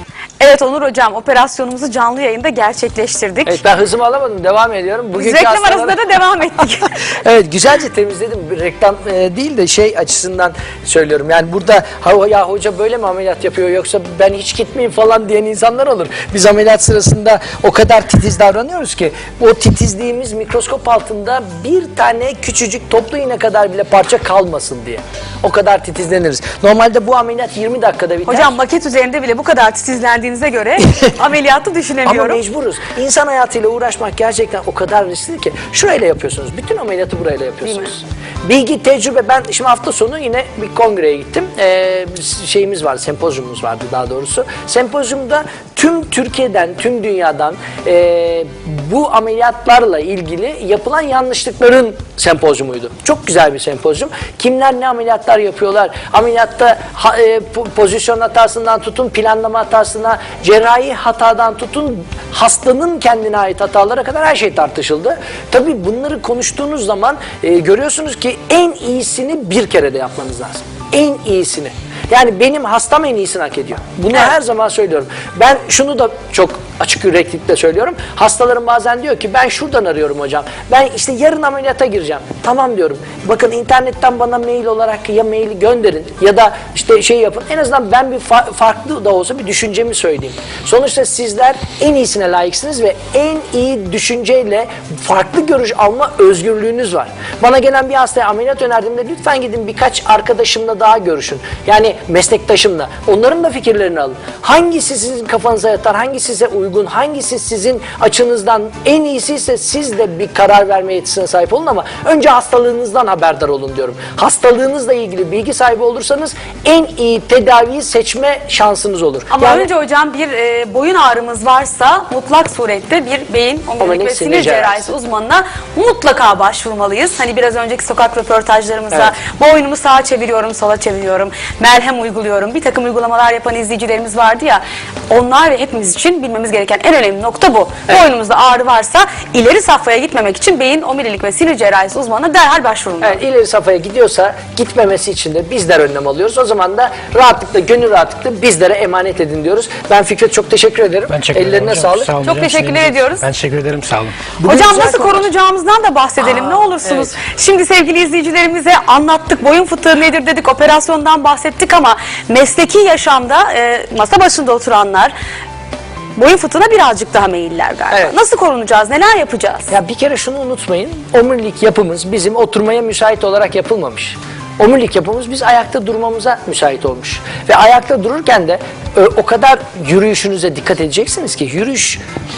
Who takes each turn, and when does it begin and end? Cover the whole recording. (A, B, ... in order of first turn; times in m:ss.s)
0:00.4-0:03.6 A
0:03.4-0:06.0 B
0:05.1-0:06.9 A
0:07.2-0:28.5 B
0:28.3-0:32.4 A
0:32.0-1:59.7 B
1:59.3-2:23.2 A
2:03.8-2:04.9 B
2:23.0-2:32.1 B
2:31.1-2:34.2 C
2:32.2-2:33.2 A
2:34.4-2:35.3 B
2:34.4-2:45.1 A
2:36.3-2:37.1 B
2:46.2-2:49.7 A
2:47.9-2:48.2 B
2:49.7-3:02.0 B